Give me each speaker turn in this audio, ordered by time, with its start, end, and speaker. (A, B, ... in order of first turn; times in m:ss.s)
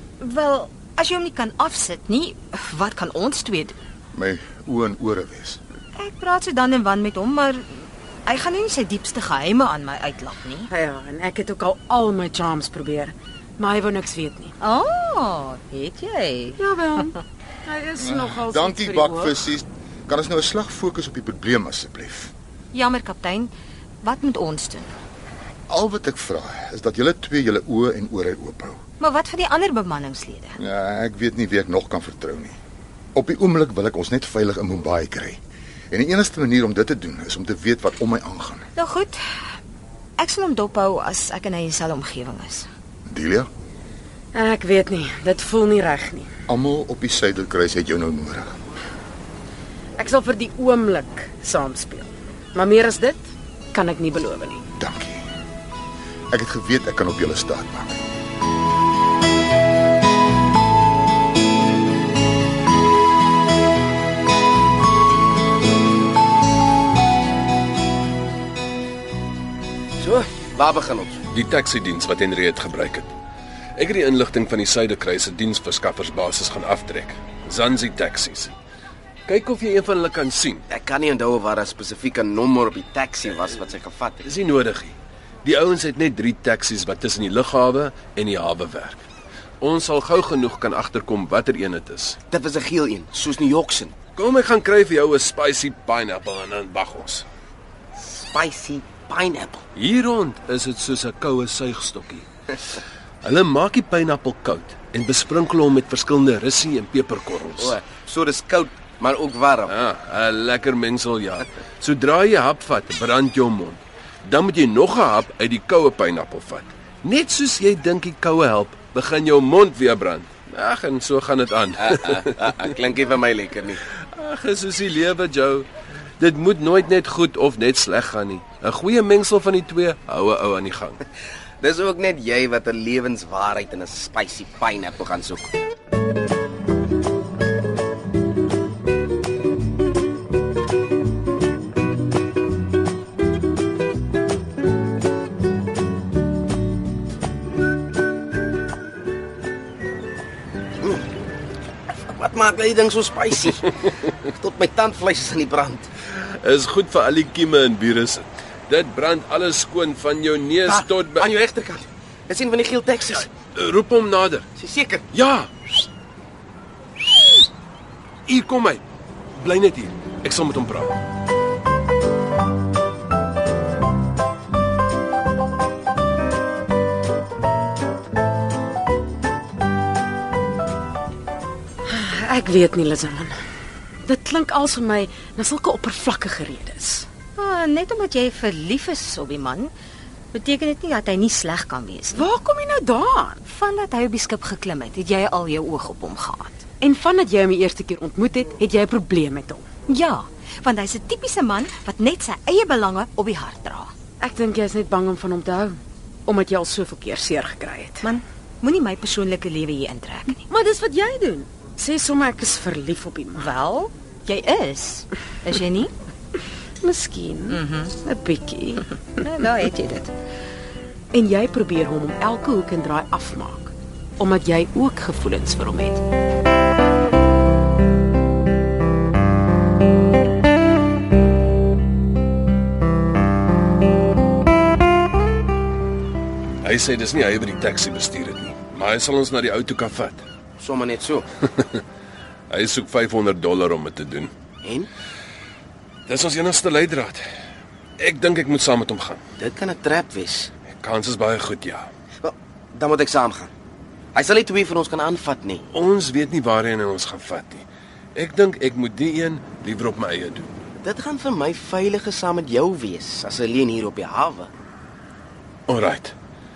0:00.2-0:03.8 A
0:04.1-0:05.6 B
0:06.0-0:10.7 A
0:10.7-0:14.6 C
0:14.6-0:16.6 A
0:16.6-0:19.4 C
0:18.0-0:22.3 B
0:22.7-0:23.5 A
0:24.0-0:24.9 A
0:25.7-0:28.8 B
0:29.0-0:30.6 A
0:30.6-0:32.6 B
0:33.1-0:35.4 B
0:35.9-0:38.7 B
0:38.8-0:39.2 A
0:40.2-0:42.7 A
0:43.1-0:43.5 B
0:44.3-0:46.3 C
0:46.5-0:48.6 B
0:50.0-0:54.6 C
0:54.8-0:55.2 B
0:56.3-0:58.0 B
1:10.0-1:11.2 D
1:11.3-1:13.1 E
1:13.8-1:18.5 E
1:19.3-1:20.6 E
1:20.7-1:24.2 D
1:24.2-1:29.0 E
1:29.6-1:32.2 E
1:32.3-1:33.9 D
1:34.1-1:37.2 E
1:38.0-1:39.6 D
1:39.7-1:42.2 E
1:43.2-1:47.8 E
1:47.6-1:49.7 D
1:49.7-2:02.5 E
2:01.9-2:03.8 D
2:04.1-2:05.7 E
2:06.2-2:11.0 E
2:11.6-2:15.5 D
2:32.1-2:33.6 D
2:34.3-2:35.9 D
2:36.1-2:41.3 E
2:40.6-2:43.3 D
2:43.3-2:44.5 E
2:44.6-2:45.0 D
2:45.1-2:45.5 E
2:48.3-2:48.8 E
2:49.4-2:50.9 E
3:01.8-3:03.3 C
3:04.0-3:07.1 C
3:07.4-3:09.7 A
3:10.3-3:12.2 A
3:12.1-3:13.4 C
3:13.4-3:16.6 A
3:16.8-3:19.6 C
3:19.9-3:23.9 A
3:24.2-3:28.1 C
3:28.0-3:30.4 A
3:30.4-3:33.5 C
3:33.4-3:35.9 A
3:36.8-3:38.9 C
3:37.5-3:38.0 A
3:39.2-3:40.1 A
3:41.1-3:46.0 C
3:56.6-4:00.2 E
4:00.6-4:01.3 D
4:02.5-4:04.3 E
4:04.6-4:04.9 D
4:06.1-4:07.2 E
4:08.0-4:09.2 E
4:09.4-4:10.5 D
4:10.8-4:11.9 E
4:12.2-4:13.5 D
4:14.1-4:15.6 D
4:15.7-4:20.5 E
4:20.8-4:24.5 D
4:25.7-4:26.1 E